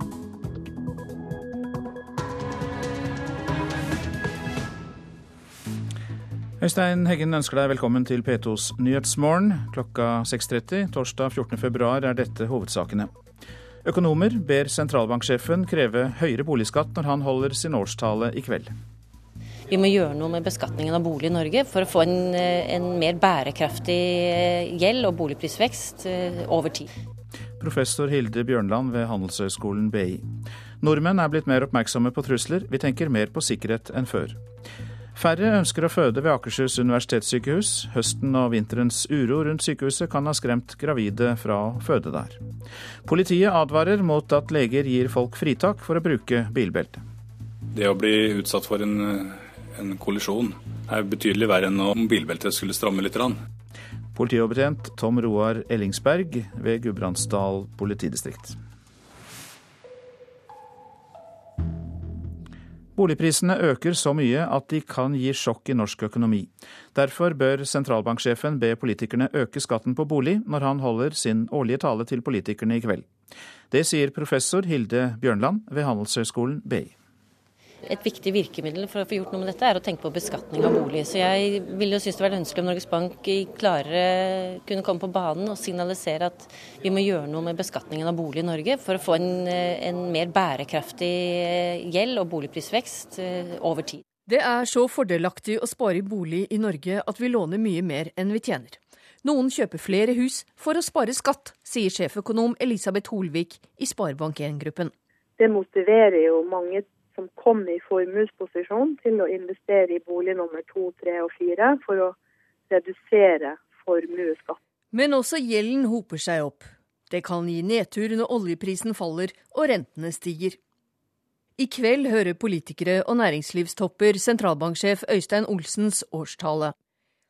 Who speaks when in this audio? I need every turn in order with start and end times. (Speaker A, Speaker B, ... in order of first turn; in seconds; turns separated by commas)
Speaker A: 6.6-13.1, Speaker A: 13.8-18.7, Speaker B: 19.7-26.9, Speaker A: 27.6-30.3, Speaker A: 30.8-34.4, Speaker A: 35.1-42.4, Speaker A: 43.0-47.0, Speaker C: 47.7-53.4, Speaker A: 54.1-58.6, Speaker A: 63.0-73.1, Speaker A: 73.7-76.9, Speaker B: 77.9-94.0, Speaker D: 94.3-104.9, Speaker E: 105.4-112.2, Speaker E: 112.7-114.6, Speaker D: 114.9-120.6, Speaker D: 121.6-126.7